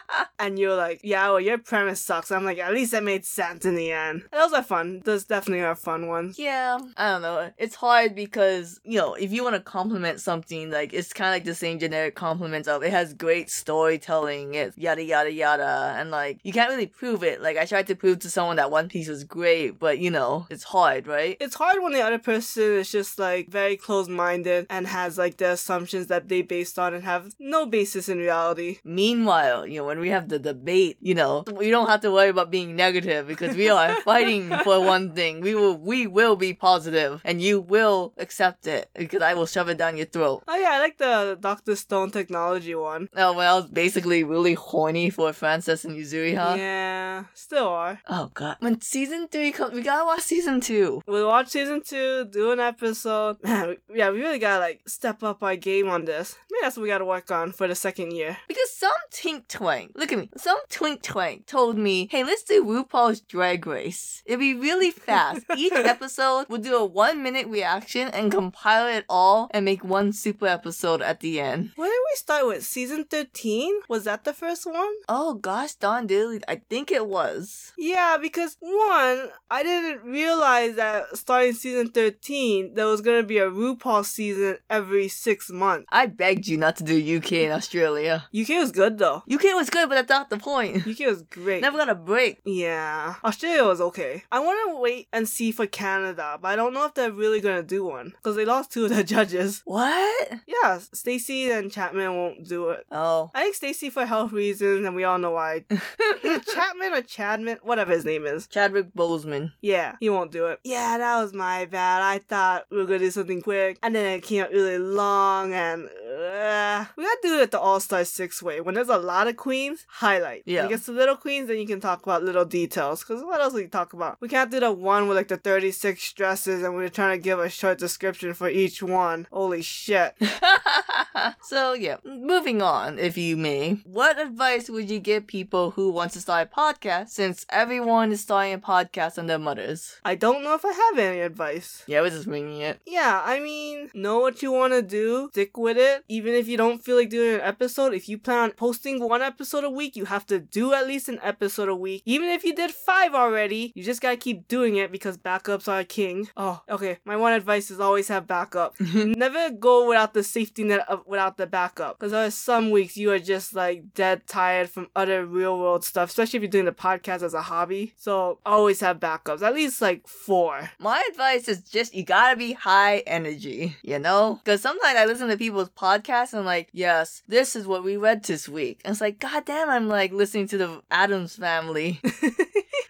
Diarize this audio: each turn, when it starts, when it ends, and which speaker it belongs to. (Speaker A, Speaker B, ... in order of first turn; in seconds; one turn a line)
Speaker A: 0.4-6.3
Speaker B: 6.3-21.4
Speaker A: 21.4-28.8
Speaker B: 28.8-40.4
Speaker A: 33.5-34.6
Speaker A: 40.5-43.1
Speaker B: 43.1-46.6
Speaker A: 46.4-48.0
Speaker B: 48.1-51.0
Speaker A: 51.0-58.4
Speaker B: 58.5-71.7
Speaker A: 71.8-75.0
Speaker B: 75.1-77.7
Speaker A: 77.8-85.9
Speaker B: 85.9-88.2
Speaker A: 88.3-89.2
Speaker B: 89.3-90.9
Speaker A: 90.8-91.7
Speaker B: 91.6-92.3
Speaker A: 92.4-99.6
Speaker B: 99.7-100.4
Speaker A: 100.5-108.5
Speaker B: 102.9-103.3
Speaker B: 108.5-109.5
Speaker A: 109.6-130.2
Speaker B: 120.5-120.8
Speaker B: 130.4-139.9
Speaker A: 140.0-141.9
Speaker B: 141.9-142.8
Speaker A: 142.8-170.7
Speaker B: 170.8-182.0
Speaker A: 182.2-182.6